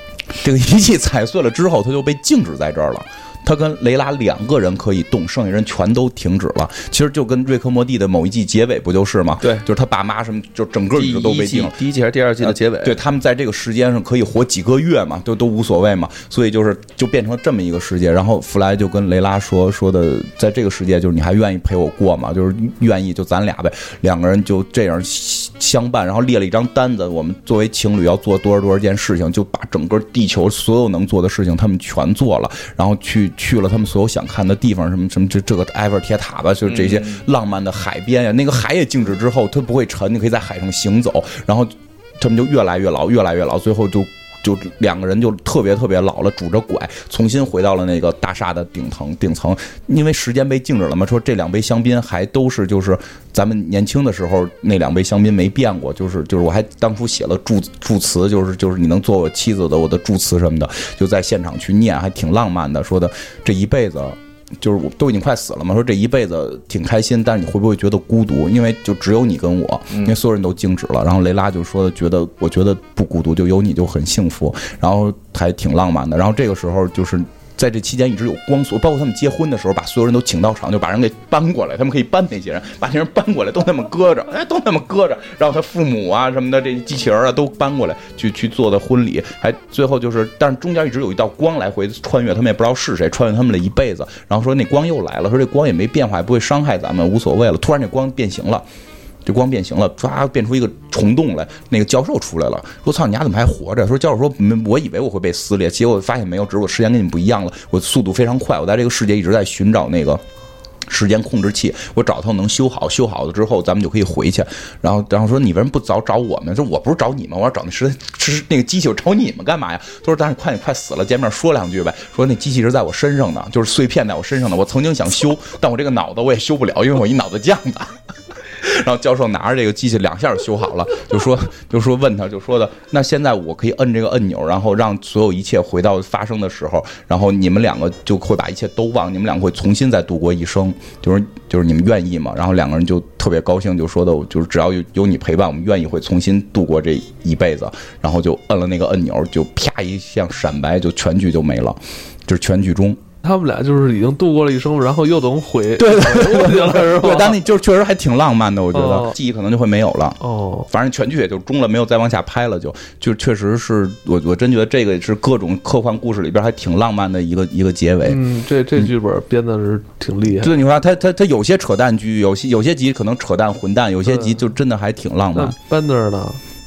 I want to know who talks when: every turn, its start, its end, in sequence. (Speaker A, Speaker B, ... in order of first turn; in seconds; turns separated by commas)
Speaker A: 0.3-11.7, Speaker B: 10.9-13.0, Speaker A: 12.4-98.7, Speaker B: 36.6-37.2, Speaker A: 99.2-110.2, Speaker A: 110.9-128.0, Speaker A: 128.5-153.0, Speaker C: 153.2-157.4, Speaker A: 155.8-168.2, Speaker C: 158.7-159.1, Speaker C: 160.2-160.7, Speaker C: 168.1-170.5, Speaker A: 170.3-175.6, Speaker C: 174.1-174.4, Speaker C: 175.3-176.4